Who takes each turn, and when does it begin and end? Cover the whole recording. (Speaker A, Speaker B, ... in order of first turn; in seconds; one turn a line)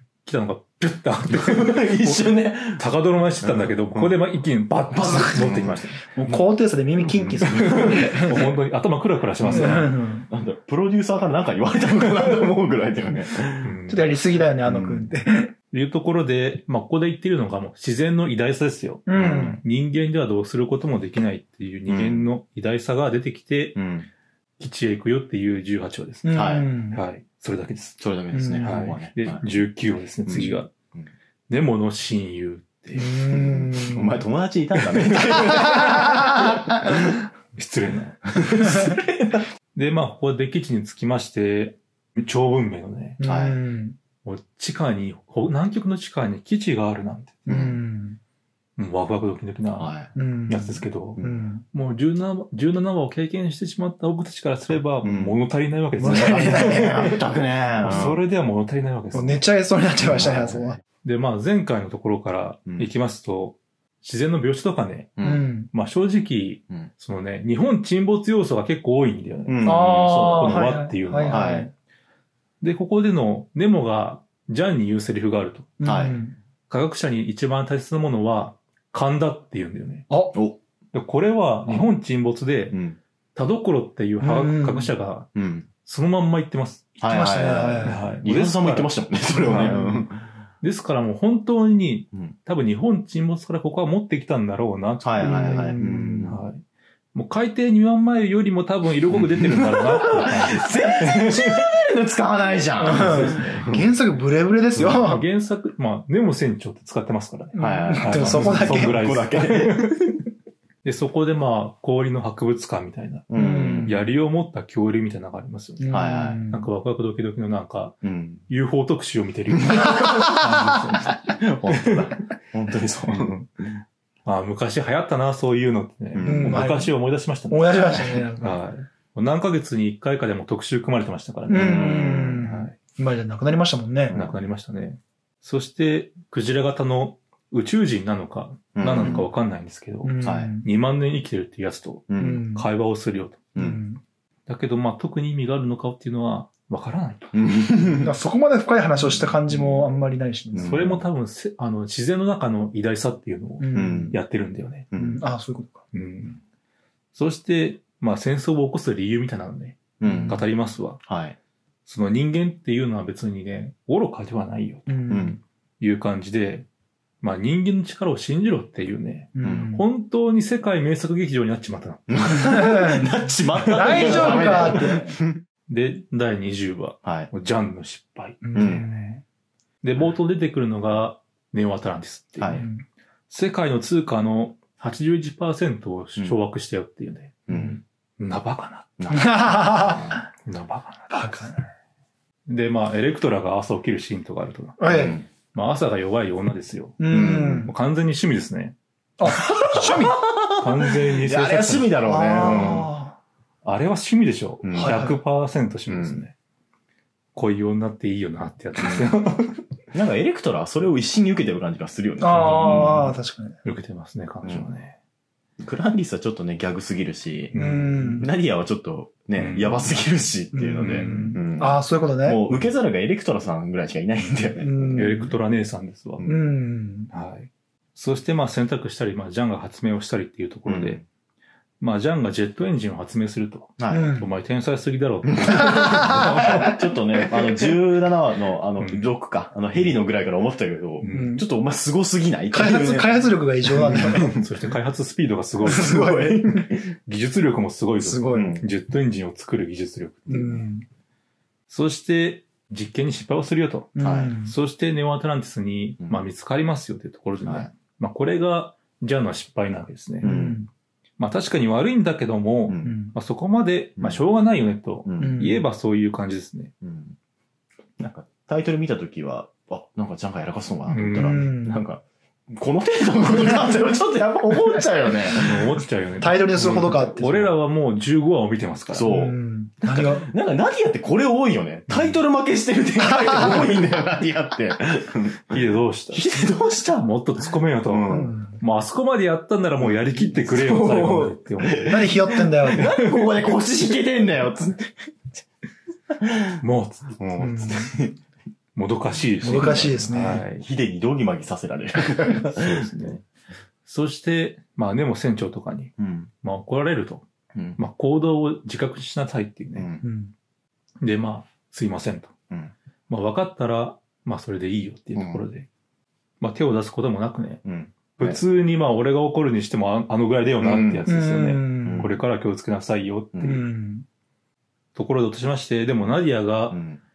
Speaker A: 0.2-6.4
Speaker B: 1.3-2.8
Speaker B: 3.4-4.2
Speaker B: 4.9-5.8
Speaker C: 6.0-8.4
Speaker B: 7.1-8.5
Speaker A: 7.2-9.9
Speaker B: 9.4-13.7
Speaker C: 9.5-10.3
Speaker A: 13.6-14.0
Speaker C: 13.9-15.5
Speaker B: 14.6-15.1
Speaker A: 15.7-23.8
Speaker C: 19.1-19.6
Speaker B: 19.1-19.6
Speaker B: 21.9-22.3
Speaker B: 23.7-24.1
Speaker A: 24.6-28.0
Speaker C: 26.2-27.0
Speaker B: 26.3-26.7
Speaker B: 28.0-29.5
Speaker C: 28.3-28.8
Speaker A: 28.6-30.7
Speaker B: 30.2-31.1
Speaker A: 31.5-33.1
Speaker C: 33.0-34.2
Speaker B: 33.2-37.2
Speaker A: 34.8-35.4
Speaker A: 37.0-38.9
Speaker B: 38.3-39.4
Speaker A: 39.7-43.2
Speaker C: 43.2-44.0
Speaker B: 43.2-43.6
Speaker A: 44.2-47.6
Speaker B: 47.5-47.8
Speaker C: 47.5-48.2
Speaker A: 48.8-57.1
Speaker B: 49.8-50.1
Speaker C: 50.1-51.6
Speaker B: 55.0-55.4
Speaker C: 56.0-57.1
Speaker B: 56.1-58.2
Speaker A: 57.8-59.4
Speaker C: 59.1-60.8
Speaker B: 60.0-60.8
Speaker A: 61.0-71.6
Speaker B: 65.2-65.4
Speaker C: 65.2-65.7
Speaker B: 69.5-71.7
Speaker C: 69.6-71.7
Speaker A: 72.6-75.7
Speaker C: 75.8-76.3
Speaker B: 75.8-76.2
Speaker A: 76.7-80.1
Speaker C: 80.1-80.4
Speaker B: 80.3-80.6
Speaker A: 80.9-82.8
Speaker B: 82.7-83.0
Speaker A: 83.3-86.9
Speaker C: 84.2-84.9
Speaker B: 85.3-85.7
Speaker B: 87.0-90.2
Speaker C: 87.1-88.1
Speaker A: 87.8-89.8
Speaker C: 89.7-90.0
Speaker A: 90.6-96.6
Speaker B: 95.0-96.4
Speaker C: 95.2-96.3
Speaker A: 97.1-101.4
Speaker B: 99.1-103.8
Speaker C: 102.8-105.2
Speaker A: 102.9-103.7
Speaker B: 104.8-105.1
Speaker A: 104.8-110.1
Speaker C: 107.5-109.1
Speaker B: 107.6-109.9
Speaker A: 110.8-118.0
Speaker B: 113.3-114.0
Speaker C: 113.3-114.0
Speaker C: 115.8-116.7
Speaker B: 115.9-116.4
Speaker B: 118.0-118.4
Speaker A: 118.5-122.0
Speaker B: 119.6-123.8
Speaker A: 124.2-132.7
Speaker B: 126.1-126.7
Speaker C: 126.2-128.6
Speaker C: 131.5-134.2
Speaker B: 131.5-132.7
Speaker A: 134.1-143.4
Speaker B: 138.7-139.2
Speaker C: 140.0-140.7
Speaker B: 140.2-140.5
Speaker B: 142.1-142.4
Speaker C: 142.2-142.7
Speaker C: 143.5-144.0
Speaker A: 144.5-147.3
Speaker B: 147.3-148.1
Speaker C: 148.0-150.8
Speaker B: 149.5-149.8
Speaker B: 150.5-151.0
Speaker A: 150.6-154.9
Speaker C: 153.6-154.1
Speaker B: 153.7-154.2
Speaker B: 154.9-155.2
Speaker C: 154.9-155.8
Speaker A: 155.9-156.4
Speaker A: 157.1-161.0
Speaker B: 160.0-160.4
Speaker C: 160.0-160.4
Speaker B: 161.1-161.4
Speaker A: 161.8-165.2
Speaker C: 164.9-165.4
Speaker B: 165.1-165.4
Speaker A: 165.8-166.7
Speaker A: 167.2-172.8
Speaker C: 169.3-169.8
Speaker B: 169.4-169.7
Speaker B: 172.1-175.4
Speaker C: 172.4-173.1
Speaker A: 173.6-174.9
Speaker C: 173.7-175.2
Speaker A: 175.7-178.8
Speaker B: 177.0-177.3
Speaker C: 178.4-179.2
Speaker B: 178.5-178.9
Speaker A: 179.8-182.7
Speaker B: 182.4-182.6
Speaker C: 182.5-182.8
Speaker A: 183.3-187.5
Speaker B: 187.5-187.8
Speaker A: 188.2-189.0
Speaker B: 189.0-190.2
Speaker C: 189.1-190.2
Speaker A: 190.4-191.4
Speaker C: 191.1-191.6
Speaker A: 192.5-198.8
Speaker C: 194.8-195.2
Speaker B: 194.9-195.2
Speaker C: 197.0-197.7
Speaker B: 197.1-197.7
Speaker C: 199.2-200.2
Speaker B: 199.4-202.9
Speaker A: 200.6-202.8
Speaker C: 202.0-203.1
Speaker A: 203.6-206.3
Speaker B: 204.6-205.1
Speaker C: 204.8-205.2
Speaker B: 205.9-206.2
Speaker A: 207.3-209.6
Speaker B: 208.8-209.1
Speaker B: 209.9-213.1
Speaker C: 212.2-213.6
Speaker A: 212.3-213.0
Speaker A: 213.6-214.9
Speaker B: 214.4-214.7
Speaker B: 215.6-217.5
Speaker A: 217.5-218.2
Speaker C: 217.5-218.3
Speaker B: 218.1-225.1
Speaker A: 219.3-220.0
Speaker C: 220.5-222.4
Speaker A: 220.8-221.4
Speaker C: 224.6-225.3
Speaker A: 224.9-226.3
Speaker C: 226.2-227.1
Speaker A: 227.1-231.0
Speaker B: 230.7-231.0
Speaker A: 231.8-236.8
Speaker B: 233.8-234.2
Speaker C: 233.9-234.3
Speaker B: 235.3-244.4
Speaker C: 235.5-236.7
Speaker A: 238.8-239.1
Speaker A: 241.0-241.4
Speaker C: 241.1-241.5
Speaker C: 242.5-244.5
Speaker A: 244.1-246.0
Speaker C: 245.6-246.7
Speaker B: 245.6-246.9
Speaker A: 247.1-250.6
Speaker C: 248.0-248.6
Speaker B: 248.3-248.7
Speaker C: 250.3-250.8
Speaker A: 251.7-260.3
Speaker C: 253.9-254.5
Speaker B: 254.0-254.3
Speaker B: 257.4-257.7
Speaker C: 260.2-260.7
Speaker B: 260.2-260.6
Speaker A: 261.2-266.7
Speaker B: 262.7-262.9
Speaker C: 262.8-263.1
Speaker B: 265.0-265.4
Speaker C: 265.2-265.6
Speaker B: 266.8-267.1
Speaker B: 268.0-275.8
Speaker A: 270.9-271.5
Speaker C: 271.0-271.8
Speaker A: 275.3-279.1
Speaker C: 276.2-277.5
Speaker B: 278.9-285.6
Speaker C: 279.0-280.3
Speaker A: 281.9-282.2
Speaker C: 283.1-283.7
Speaker A: 285.5-292.1
Speaker B: 286.1-287.1
Speaker B: 287.9-288.4
Speaker C: 288.1-288.6
Speaker B: 289.8-295.1
Speaker C: 291.9-293.0
Speaker B: 296.2-296.6
Speaker A: 296.6-297.2
Speaker B: 297.2-298.2
Speaker C: 297.4-297.9
Speaker A: 298.8-300.6
Speaker B: 299.4-303.2
Speaker C: 299.4-300.4
Speaker A: 302.5-303.2
Speaker A: 303.9-309.9
Speaker B: 306.0-306.3
Speaker B: 309.7-310.1
Speaker C: 310.0-310.3
Speaker A: 311.0-312.3
Speaker A: 313.1-315.7
Speaker B: 315.1-315.4
Speaker A: 316.4-317.6
Speaker B: 317.6-318.4
Speaker A: 318.1-323.6
Speaker B: 320.6-321.1
Speaker C: 321.1-322.1
Speaker B: 321.8-322.1
Speaker B: 323.3-323.6
Speaker C: 323.4-324.1
Speaker A: 324.9-326.8
Speaker B: 326.7-327.0